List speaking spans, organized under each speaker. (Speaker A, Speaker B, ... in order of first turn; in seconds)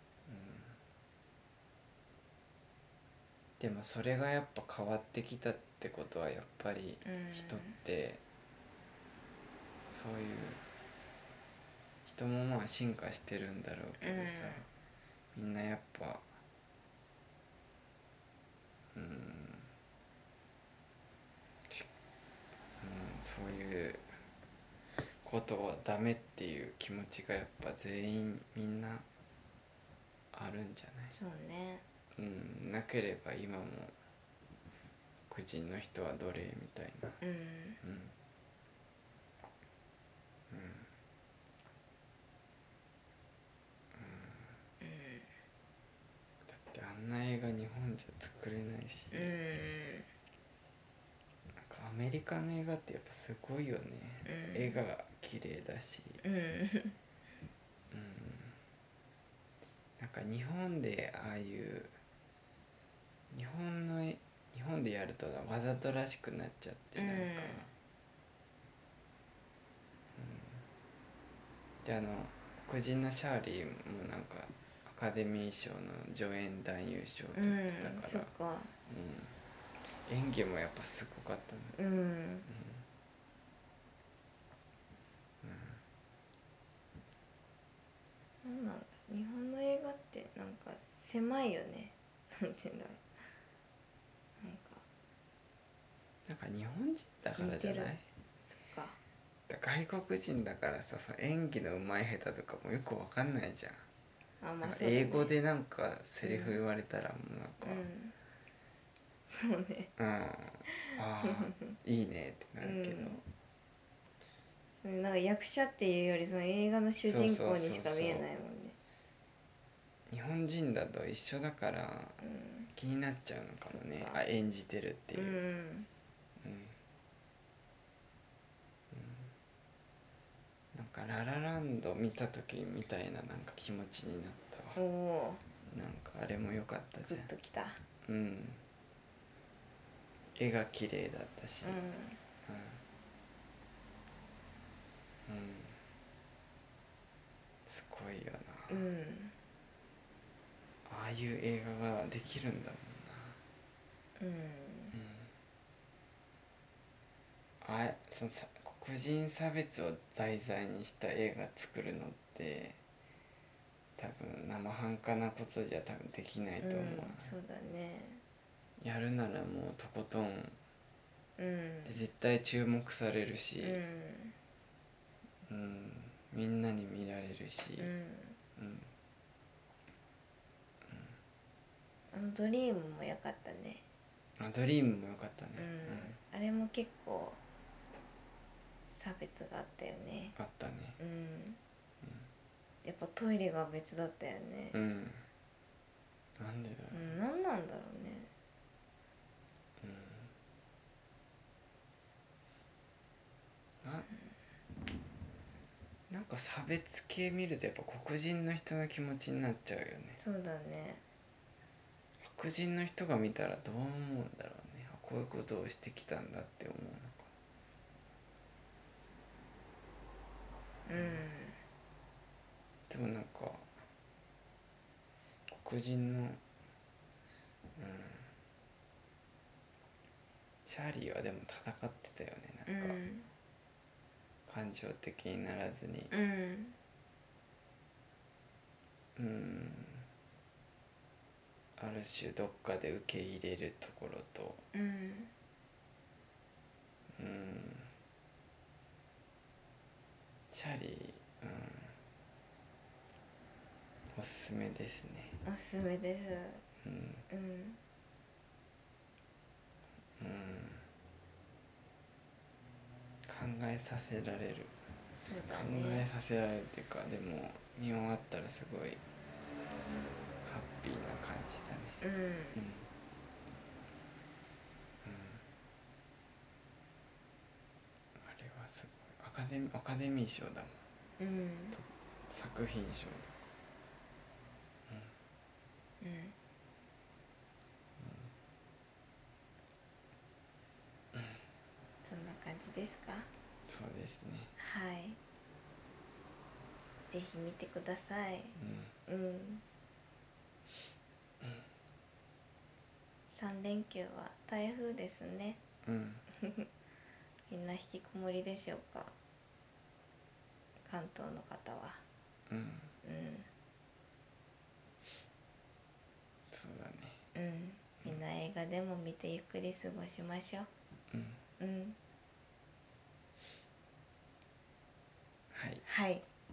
Speaker A: 0.2-0.8, 3.6-8.2, 9.9-10.6, 12.0-14.6, 15.3-16.3, 18.9-19.7, 22.8-24.1, 25.2-29.1, 30.3-31.1, 32.1-34.0, 35.3-37.2, 37.8-38.1, 40.5-40.9, 43.9-44.6, 46.5-49.3, 51.6-56.2, 57.9-58.6, 60.0-62.0, 63.3-67.7, 70.2-70.7, 71.8-78.3, 78.8-79.4, 80.0-81.8, 82.5-82.8, 85.4-85.8, 96.2-98.0, 99.5-103.8, 104.6-107.9, 110.0-113.2, 117.0-118.3, 120.1-122.2, 122.7-125.4, 126.4-126.8, 128.9-129.3, 130.7-134.8, 135.7-137.3, 138.0-138.6, 140.3-141.9, 142.4-142.8, 145.3-145.8, 147.7-148.8, 150.8-153.4, 154.9-155.3, 157.6-162.8, 164.0-167.3, 168.8-170.6, 171.8-173.8, 175.5-177.9, 178.6-178.9, 180.9-181.2, 184.4-186.2, 190.3-191.0, 192.0-192.3, 194.7-195.2, 196.4-197.1, 199.8-200.3, 203.8-204.1, 206.1-210.2, 212.2-217.3, 222.9-223.7, 225.5-226.4, 227.8-228.3, 230.6-233.0, 234.5-236.1, 239.2-240.1, 241.8-244.6, 247.2-247.9, 250.5-252.0, 254.1-255.4, 256.8-257.2, 260.2-260.9, 263.2-264.7, 265.5-269.0, 270.4-272.0, 272.5-272.9, 275.0-275.4, 278.1-280.8, 281.7-283.4, 284.9-285.1, 288.0-288.3, 291.1-291.4, 293.7-294.5, 298.6-298.9, 305.8-306.2, 312.5-312.9, 316.5-317.2, 321.1-321.4, 325.5-325.8
Speaker B: 7.0-7.8, 14.0-14.7, 31.1-31.8, 37.2-37.8, 44.8-45.3, 49.1-50.1, 54.2-54.8, 56.2-57.0, 67.0-67.7, 77.3-78.7, 81.7-82.5, 88.4-93.1, 94.4-94.8, 97.4-97.9, 98.5-99.0, 104.4-105.3, 106.2-106.6, 107.6-108.1, 109.3-109.9, 110.7-111.7, 112.6-113.2, 114.8-118.8, 122.2-122.7, 123.6-124.2, 125.1-125.9, 134.8-135.4, 137.0-137.8, 141.6-142.2, 148.7-149.3, 154.2-154.9, 166.6-168.2, 171.4-172.0, 173.6-174.3, 177.8-178.4, 182.1-183.8, 185.6-187.4, 188.9-190.3, 191.0-191.6, 192.8-194.8, 196.9-198.3, 210.2-211.0, 220.8-221.6, 232.7-233.3, 236.1-236.8, 244.7-245.3, 255.4-256.6, 257.3-257.8, 265.1-266.1, 272.0-272.6, 281.2-281.8, 286.0-286.3, 292.0-293.3, 294.6-295.2, 297.1-299.6, 303.3-305.6, 306.4-306.7, 307.5-309.1, 310.8-312.0, 313.0-313.5, 317.3-320.7, 321.6-322.0, 325.8-326.2